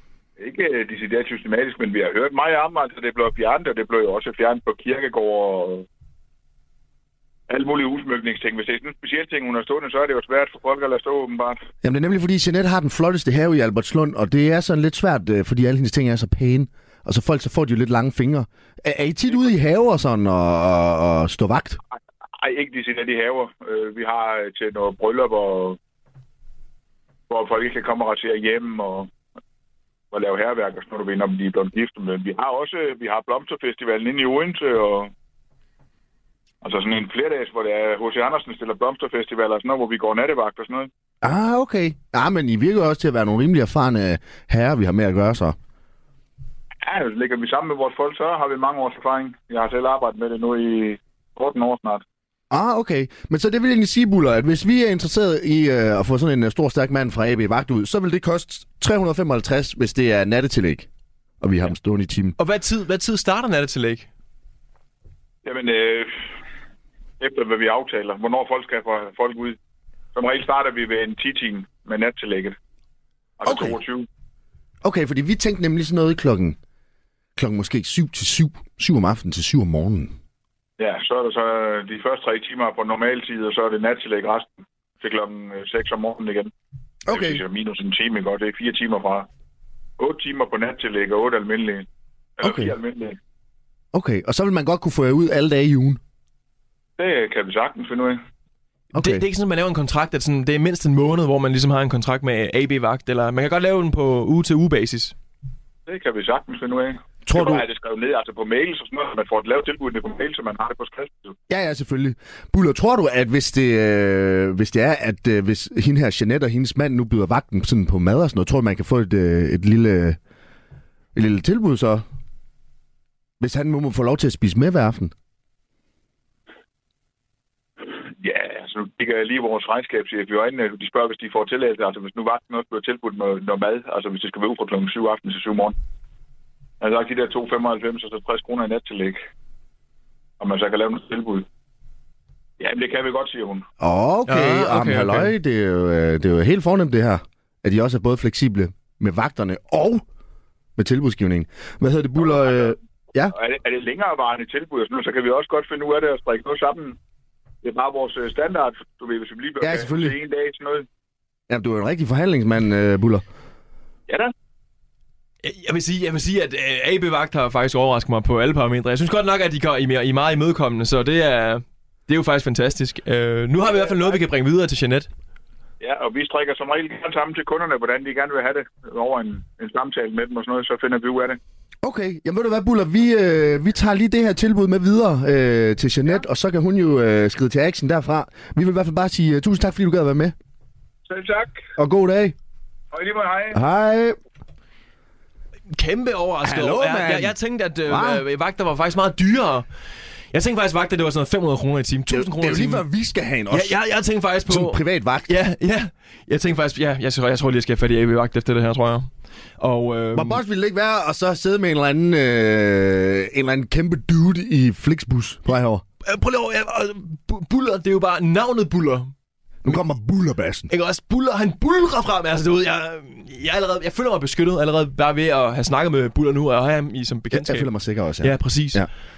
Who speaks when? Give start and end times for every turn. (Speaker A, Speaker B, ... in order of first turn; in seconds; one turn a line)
Speaker A: 0.4-5.8
Speaker A: 7.5-11.6
Speaker B: 11.8-21.8
Speaker A: 22.4-25.8
Speaker A: 27.3-29.1
Speaker A: 30.1-35.1
Speaker A: 36.6-40.9
Speaker B: 41.2-45.5
Speaker A: 46.8-52.0
Speaker B: 52.5-60.9
Speaker B: 61.4-62.4
Speaker C: 62.4-64.1
Speaker A: 65.4-66.2
Speaker A: 67.2-69.6
Speaker A: 70.1-72.5
Speaker A: 73.4-74.0
Speaker B: 73.4-73.8
Speaker B: 74.8-76.6
Speaker B: 77.3-80.1
Speaker A: 80.8-86.5
Speaker B: 87.0-87.4
Speaker A: 87.1-89.3
Speaker A: 90.0-91.8
Speaker A: 92.4-93.2
Speaker B: 92.4-92.7
Speaker B: 93.9-96.0
Speaker A: 97.0-98.2
Speaker B: 98.9-99.2
Speaker C: 99.0-105.1
Speaker A: 105.9-111.3
Speaker B: 107.2-107.6
Speaker B: 111.5-120.2
Speaker B: 121.1-122.0
Speaker B: 123.4-125.1
Speaker A: 128.1-135.8
Speaker A: 136.8-139.2
Speaker A: 140.4-141.4
Speaker A: 142.6-143.6
Speaker B: 143.8-150.0
Speaker C: 144.3-145.3
Speaker B: 150.8-153.3
Speaker A: 152.2-152.7
Speaker A: 153.3-156.9
Speaker A: 157.6-160.9
Speaker B: 159.6-160.1
Speaker B: 161.5-163.2
Speaker A: 164.1-164.3
Speaker C: 165.4-175.1
Speaker A: 173.7-174.2
Speaker A: 175.8-181.4
Speaker B: 181.8-190.3
Speaker A: 191.1-191.6
Speaker B: 191.8-192.3
Speaker A: 192.9-193.6
Speaker B: 193.5-194.2
Speaker C: 195.7-199.6
Speaker B: 196.4-197.3
Speaker B: 197.8-198.2
Speaker C: 200.3-202.8
Speaker B: 202.1-203.7
Speaker C: 203.5-209.1
Speaker B: 204.5-205.3
Speaker C: 209.6-210.4
Speaker B: 210.1-215.8
Speaker C: 216.0-219.1
Speaker B: 219.6-220.7
Speaker C: 220.7-227.7
Speaker B: 227.3-228.9
Speaker C: 228.2-228.8